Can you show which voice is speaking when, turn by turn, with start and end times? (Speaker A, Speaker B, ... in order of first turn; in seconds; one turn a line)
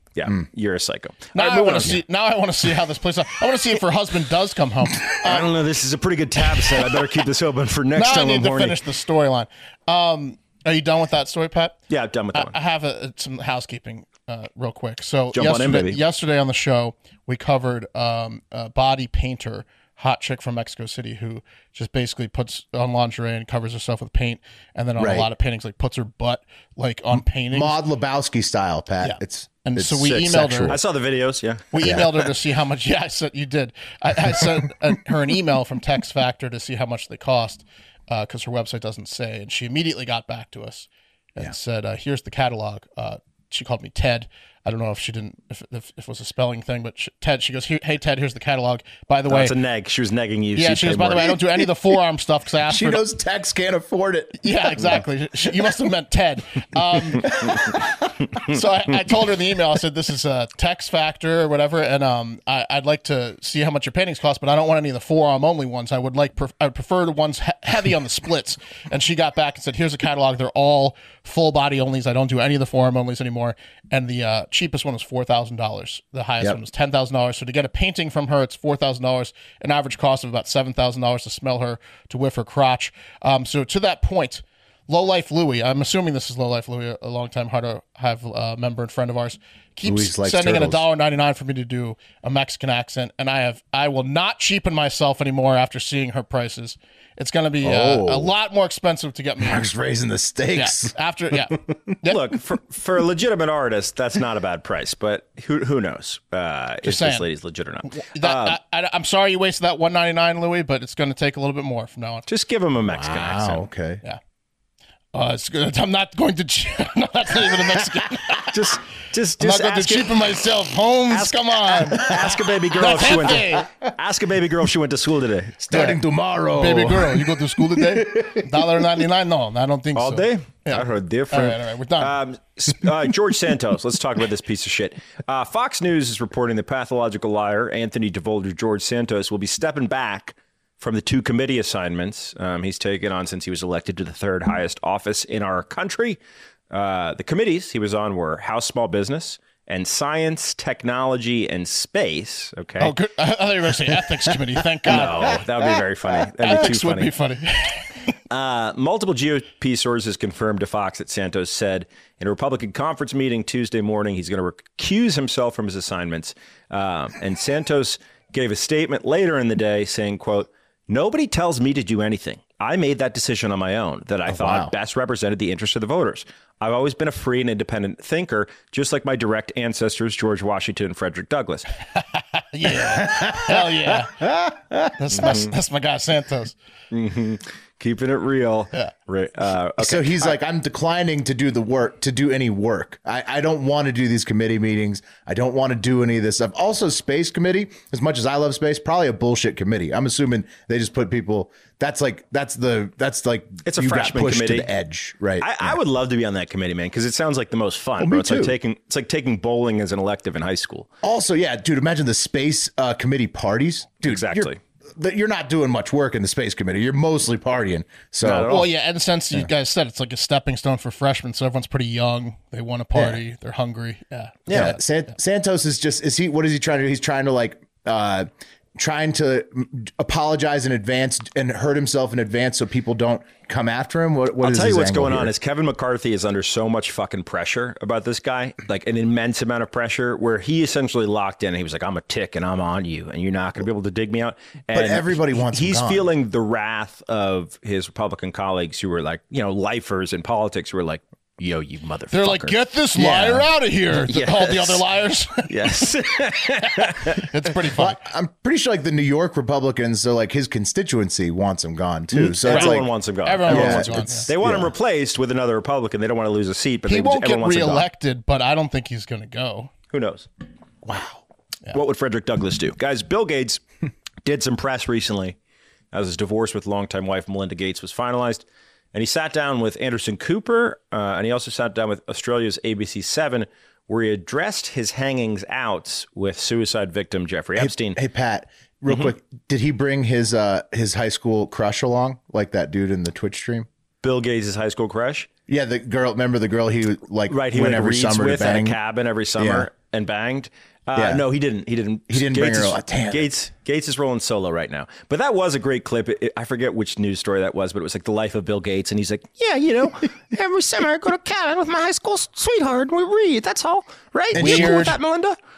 Speaker A: 0.1-2.0
Speaker B: 1.3-5.5
Speaker A: 5.2-8.8
Speaker B: 8.0-11.8
Speaker A: 11.9-12.5
Speaker B: 12.3-27.8
Speaker A: 15.3-16.0
Speaker C: 25.0-25.3
Speaker C: 27.1-30.8
Speaker B: 29.0-30.8
Speaker A: 30.7-31.9
Speaker B: 31.7-49.5
Speaker C: 31.8-32.1
Speaker A: 49.3-51.3
Speaker B: 50.5-53.0
Speaker C: 52.6-55.0
Speaker B: 54.4-57.4
Speaker C: 57.2-57.8
Speaker B: 58.4-99.7
Speaker C: 89.8-90.8
Speaker C: 97.6-98.3
Speaker C: 99.4-101.8
Speaker B: 100.5-102.2
Speaker A: 102.1-108.6
Speaker B: 106.8-107.2
Speaker B: 107.9-112.2
Speaker A: 112.3-113.6
Speaker C: 112.8-114.0
Speaker B: 115.1-118.5
Speaker A: 118.5-120.3
Speaker B: 119.4-122.1
Speaker A: 121.1-125.6
Speaker B: 122.8-123.7
Speaker C: 125.6-128.6
Speaker B: 125.7-126.0
Speaker B: 126.6-132.1
Speaker A: 129.9-146.2
Speaker A: 146.7-152.9
Speaker B: 152.8-155.4
Speaker A: 154.9-157.1
Speaker B: 156.4-157.9
Speaker A: 158.3-181.7
Speaker C: 174.3-174.7
Speaker B: 182.5-184.3
Speaker C: 182.8-184.9
Speaker B: 185.0-186.5
Speaker A: 185.2-185.5
Speaker A: 186.9-190.4
Speaker C: 189.8-205.8
Speaker A: 203.7-204.7
Speaker A: 205.4-210.9
Speaker C: 208.0-208.5
Speaker C: 211.0-218.5
Speaker A: 214.1-214.6
Speaker A: 218.2-218.7
Speaker B: 218.5-224.8
Speaker C: 222.9-223.2
Speaker A: 224.5-224.8
Speaker C: 224.5-235.3
Speaker A: 234.4-252.6
Speaker C: 244.7-246.1
Speaker B: 252.1-255.8
Speaker C: 252.9-253.5
Speaker A: 254.0-254.8
Speaker A: 255.5-257.2
Speaker B: 257.1-258.0
Speaker C: 257.7-262.9
Speaker A: 262.1-267.9
Speaker B: 262.4-264.3
Speaker C: 263.4-264.7
Speaker B: 266.9-269.7
Speaker A: 269.9-270.3
Speaker C: 270.8-271.2
Speaker A: 271.7-273.6
Speaker A: 274.2-275.4
Speaker A: 275.9-288.0
Speaker C: 287.6-293.7
Speaker A: 294.0-295.3
Speaker C: 295.5-298.8
Speaker A: 297.3-315.4
Speaker C: 299.4-299.7
Speaker C: 300.9-301.2
Speaker C: 302.1-303.3
Speaker C: 314.3-315.0
Speaker B: 314.3-314.9